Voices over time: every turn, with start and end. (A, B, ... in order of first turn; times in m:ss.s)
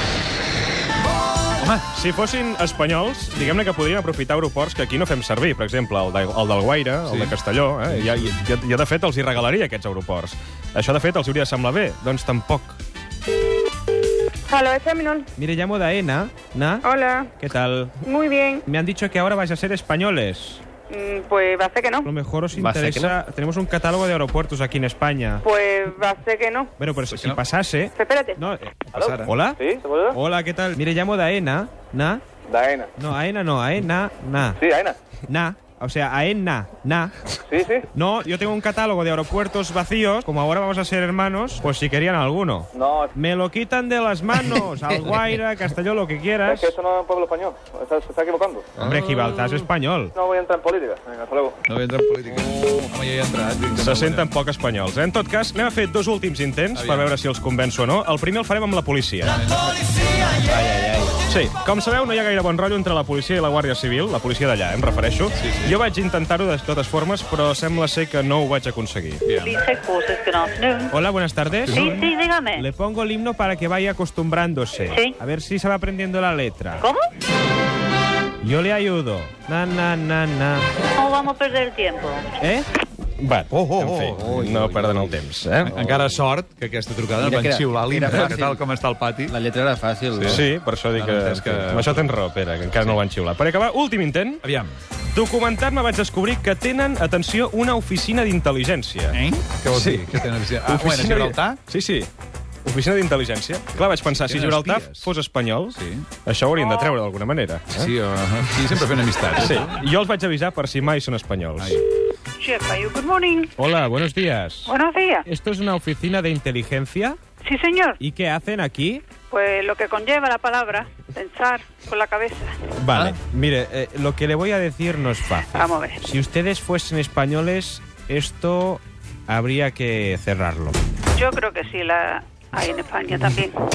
0:01.6-0:01.8 A
0:01.9-0:12.8 B
0:07.0-0:07.4 A
0:07.9-0:08.3 A
0:14.5-0:15.1 C
0:15.4-0:16.8 B
0:16.8-0:17.3 C
0:17.4-0:17.9 B
0:18.0-0:18.6 C
0:18.6-0:20.6 B
0:20.9-0:22.0 C
0:22.0-0:25.4 B
0:22.5-0:23.1 D
0:25.4-0:26.7 C
0:26.8-0:29.6 B
0:27.1-0:27.4 A
0:28.0-0:28.3 C
0:28.9-0:30.2 E
0:28.9-0:29.3 A
0:30.1-0:32.2 B
0:32.5-0:32.9 E
0:33.0-0:34.6 B
0:34.6-0:35.0 E
0:35.3-0:37.1 B
0:37.5-0:37.8 E
0:37.9-0:46.7 B
0:42.7-0:43.1 E
0:46.4-0:48.7 E
0:48.8-0:49.3 D
0:48.8-0:50.1 B
0:50.1-0:51.6 E
0:51.7-0:54.3 A
0:53.8-0:59.3 B
0:56.7-0:57.2 A
0:59.3-0:59.9 A
1:01.3-1:09.2 B
1:05.4-1:05.8 A
1:09.2-1:09.6 A
1:09.4-1:10.9 F
1:10.9-1:16.8 B
1:11.6-1:12.0 A
1:11.7-1:12.6 F
1:14.9-1:15.1 F
1:18.4-1:20.6 B
1:21.0-1:22.2 F
1:22.4-1:22.7 B
1:23.2-1:25.7 B
1:23.5-1:24.2 A
1:24.2-1:25.2 D
1:25.7-1:26.0 D
1:25.7-1:29.4 A
1:27.2-1:28.6 D
1:29.3-1:30.4 D
1:30.1-1:32.0 A
1:30.3-1:34.4 B
1:34.4-1:34.7 A
1:35.1-1:42.1 B
1:39.1-1:41.6 A
1:42.6-1:47.9 B
1:44.0-1:45.1 A
1:45.7-1:46.1 A
1:46.6-1:47.0 C
1:47.8-1:49.8 A
1:49.4-1:51.8 B
1:52.4-1:53.5 C
1:53.6-1:54.7 B
1:54.6-1:55.2 C
1:55.2-1:57.2 B
1:57.4-1:58.0 C
1:58.0-1:59.0 B
1:59.3-2:02.5 C
2:02.8-2:10.8 B
2:05.5-2:06.0 C
2:11.1-2:13.6 C